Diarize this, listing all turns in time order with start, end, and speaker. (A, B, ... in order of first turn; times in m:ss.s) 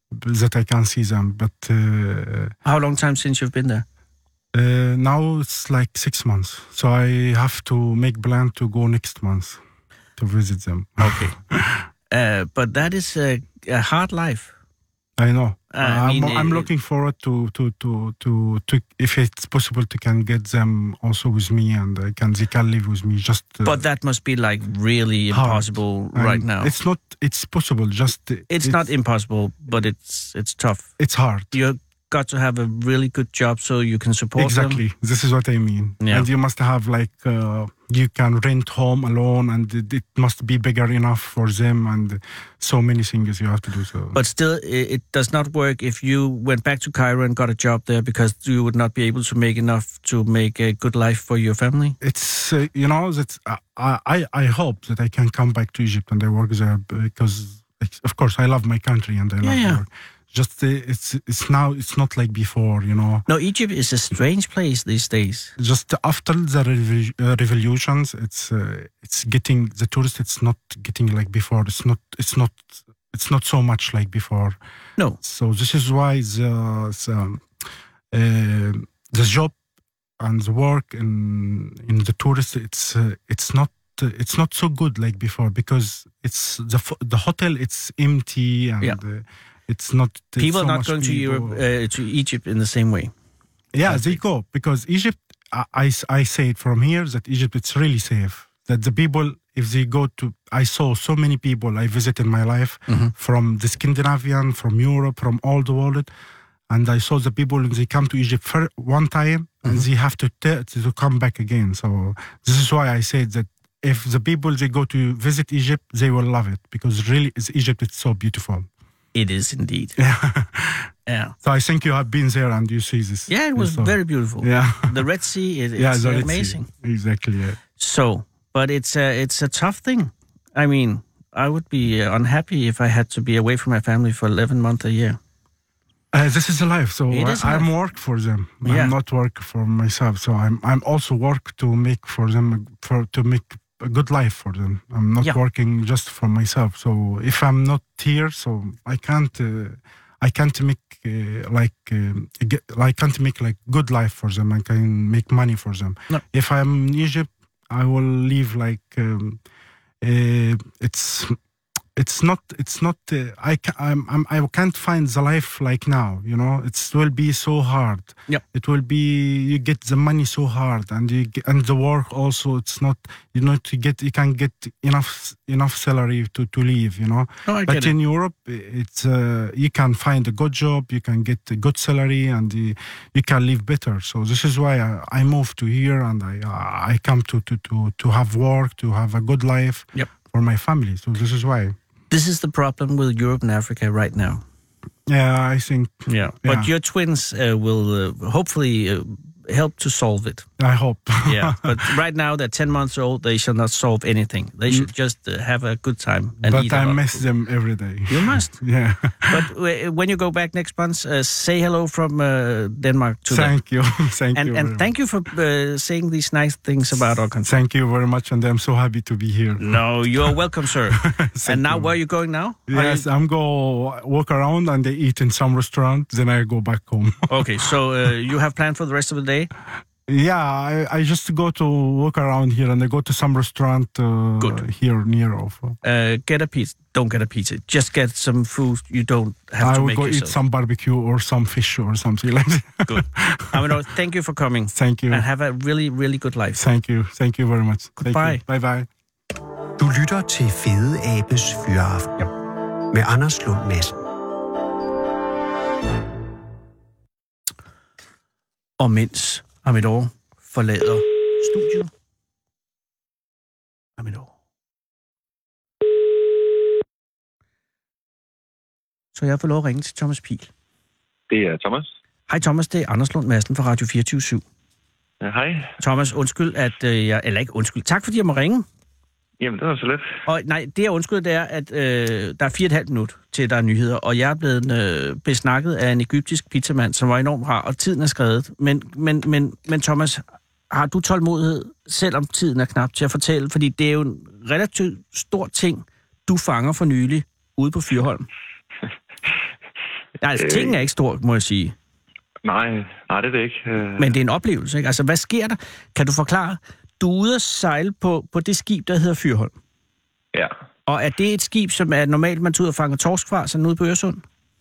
0:00.1-0:02.5 A
0:02.6-0:03.8 B
0:04.5-0:09.6 A
0:10.2-0:11.8 A
0:11.0-0:11.4 B
0:12.1-0:14.5 B
0:15.2-0:23.8 A
0:15.7-0:16.7 B
0:23.6-0:26.7 B
0:25.3-0:28.8 A
0:28.5-0:30.9 B
0:31.0-0:31.6 A
0:31.5-0:34.8 B
0:34.4-0:44.2 A
0:36.0-0:36.3 B
0:44.1-0:52.0 B
0:52.0-1:03.2 A
0:59.4-0:59.8 B
1:03.3-1:05.5 B
1:05.6-1:14.6 A
1:15.2-1:17.4 A
1:18.1-1:19.5 A
1:20.2-1:31.6 A
1:30.4-1:33.1 B
1:33.7-1:46.1 A
1:33.8-1:34.2 B
1:42.9-1:43.1 B
1:46.7-1:58.7 A
1:59.1-2:00.0 B
2:00.0-2:00.9 A
2:01.1-2:01.3 B
2:01.4-2:05.0 A
2:03.3-2:06.7 B
2:05.8-2:07.6 A
2:07.7-2:15.2 B
2:16.1-2:39.4 A
2:17.1-2:17.7 B
2:18.6-2:19.0 B
2:40.0-2:41.4 A
2:42.0-3:11.7 A
2:57.4-2:57.9 B
3:12.1-3:14.4 B
3:15.1-3:16.7 A
3:16.1-3:20.4 B
3:20.6-3:21.9 A
3:21.2-3:27.2 B
3:26.4-3:29.4 A
3:28.1-3:28.6 B
3:29.3-3:33.5 B
3:33.3-3:34.9 A
3:34.3-3:37.5 B
3:37.4-3:40.3 A
3:39.6-3:43.1 B
3:40.9-3:41.9 A
3:42.7-3:47.5 A
3:47.3-3:49.5 B
3:50.1-3:55.8 A
3:55.8-4:00.4 B
3:59.6-4:03.6 A
4:02.9-4:06.6 B
4:04.7-4:05.2 A
4:06.6-4:08.9 A
4:08.0-4:08.4 B
4:09.8-4:12.3 C
4:12.9-4:14.0 C
4:18.8-4:21.9 B
4:24.0-4:24.3 B
4:29.1-4:30.5 B
4:31.3-4:31.9 D
4:32.3-4:34.4 B
4:35.2-4:35.7 D
4:35.8-4:38.6 B
4:39.4-4:40.2 D
4:40.2-4:58.3 B
5:00.2-5:01.7 B
5:00.4-5:00.8 D
5:02.4-5:04.2 D
5:04.0-5:09.5 B
5:10.8-5:14.2 B